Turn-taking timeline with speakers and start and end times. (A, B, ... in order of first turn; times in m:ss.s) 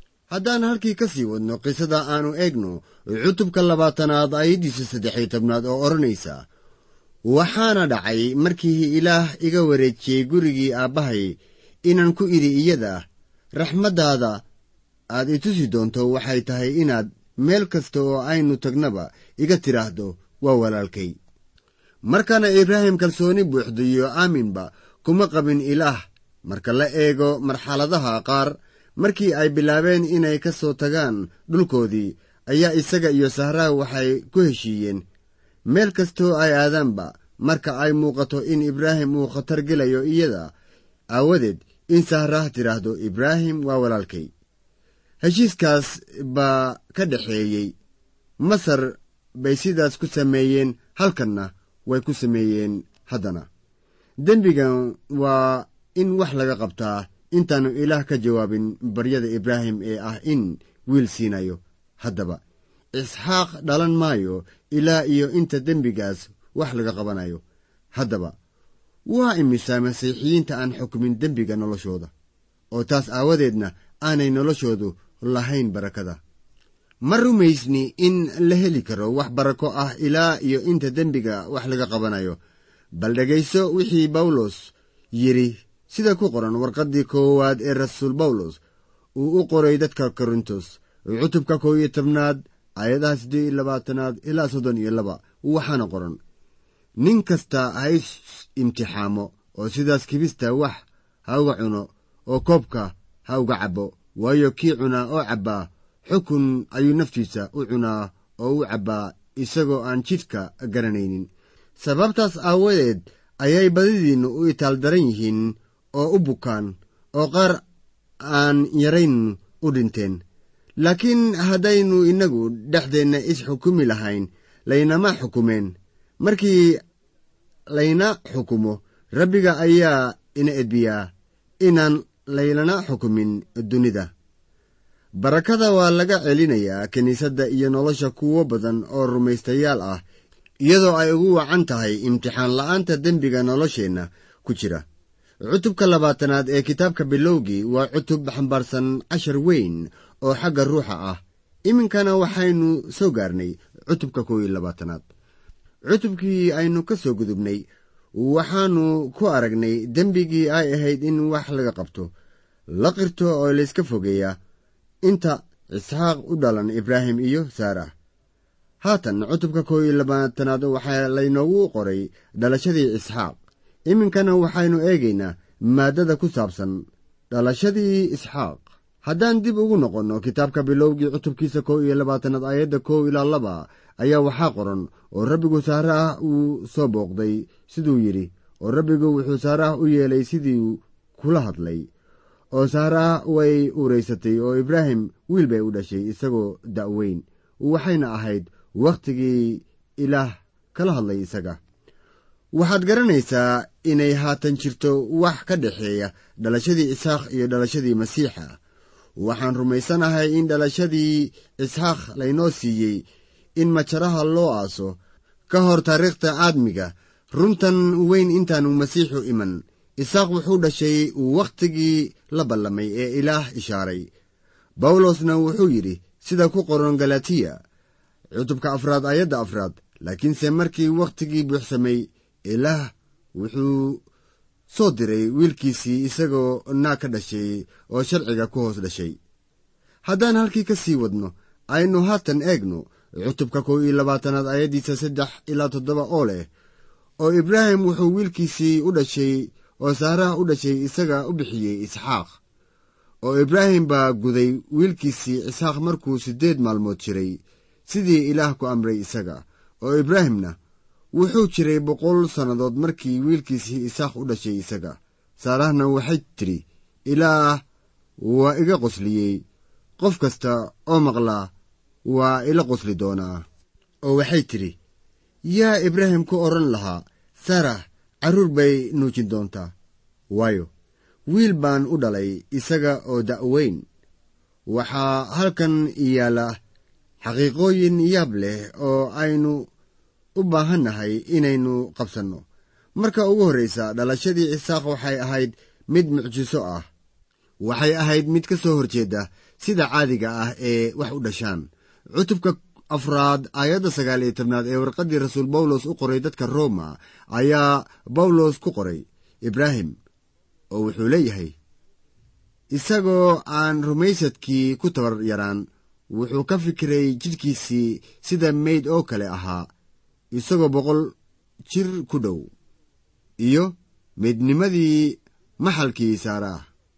0:00.3-0:06.4 A
0:07.3-0:13.0 A
0:13.6-0:14.4 A
0:15.1-0:21.2 A
0:22.1-0:35.0 A
0:35.7-0:40.5 A
0:41.1-0:44.3 A
0:45.2-0:47.7 A
0:48.4-0:53.5 A
0:54.2-1:02.4 A
1:03.0-1:07.4 A
1:08.0-1:08.3 A
1:09.1-1:12.1 A
1:12.7-1:16.2 A
1:17.1-1:22.4 A
1:23.0-1:28.6 A
1:29.2-1:36.2 A
1:37.0-1:51.3 A
1:51.8-1:57.6 A
1:58.3-2:00.2 A
2:00.8-2:06.6 A
2:07.7-2:11.0 A
2:11.6-2:14.1 A
2:15.2-2:20.0 A
2:20.6-2:24.8 A
2:25.5-2:35.0 A
2:35.9-2:37.6 A
2:38.2-2:42.1 A
2:42.8-2:44.4 A
2:45.0-2:47.9 A
2:48.8-2:53.4 A
2:53.9-2:56.8 A
2:57.3-3:11.9 A
3:12.5-3:21.6 A
3:22.6-3:28.6 A
3:29.2-3:33.0 A
3:33.6-3:35.0 A
3:35.5-3:44.1 A
3:44.8-3:47.6 A
3:48.4-3:54.0 A
3:54.7-3:59.2 A
4:00.0-4:06.5 A
4:07.2-4:12.3 A
4:13.2-4:20.6 A
4:21.1-4:27.6 A
4:28.2-4:29.4 A
4:30.0-4:31.5 A
4:32.1-4:33.4 A
4:34.1-4:34.7 A
4:35.5-4:39.7 A
4:40.3-4:40.7 A
4:41.3-4:43.8 A
4:44.7-4:46.5 A
4:47.2-4:49.7 A
4:50.4-4:52.4 A
4:53.0-4:56.8 A
4:57.6-5:10.0 A
5:10.7-5:11.5 A
5:12.7-5:19.7 A
5:20.3-5:21.1 A
5:21.7-5:22.5 A
5:23.4-5:26.6 A